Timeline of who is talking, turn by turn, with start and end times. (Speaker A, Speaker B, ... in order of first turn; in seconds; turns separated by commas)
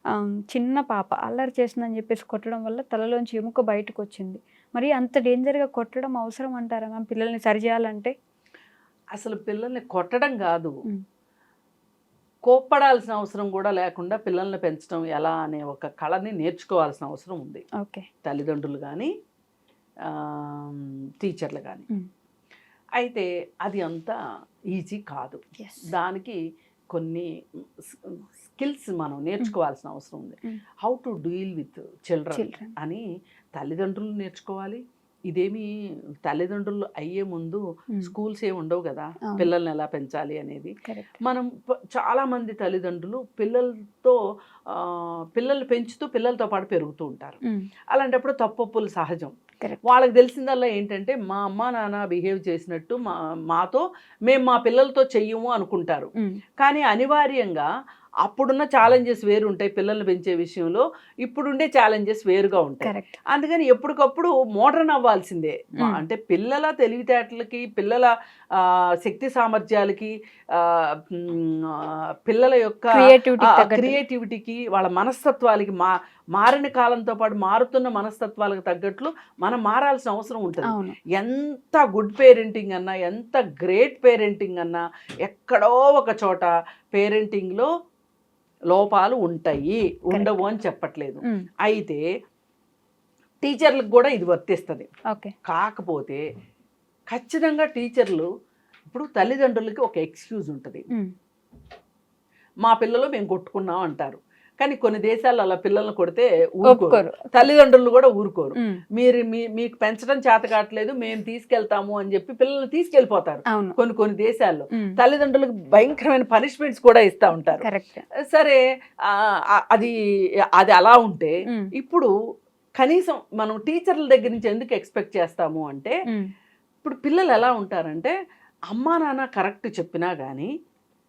Speaker A: 0.2-8.1, Speaker B: 9.1-10.7, Speaker B: 12.5-17.6, Speaker A: 17.8-18.1, Speaker B: 18.2-19.1, Speaker B: 20.1-21.8, Speaker B: 23.0-24.1, Speaker B: 24.7-26.4, Speaker A: 25.6-25.8, Speaker B: 26.9-27.3, Speaker B: 27.9-33.0, Speaker A: 32.3-32.7, Speaker B: 33.6-35.6, Speaker B: 36.2-40.7, Speaker A: 40.9-41.1, Speaker B: 41.2-44.2, Speaker B: 44.7-47.4, Speaker B: 47.9-57.7, Speaker B: 58.2-87.7, Speaker A: 62.8-63.1, Speaker A: 73.0-74.0, Speaker A: 80.7-81.0, Speaker B: 88.7-92.0, Speaker A: 90.1-90.5, Speaker B: 93.4-94.9, Speaker B: 95.5-96.2, Speaker B: 97.1-98.3, Speaker B: 98.9-100.8, Speaker B: 102.6-117.7, Speaker A: 106.7-107.5, Speaker A: 117.4-118.0, Speaker B: 118.3-119.9, Speaker B: 120.6-122.1, Speaker B: 122.8-125.9, Speaker B: 126.8-128.1, Speaker B: 128.7-130.5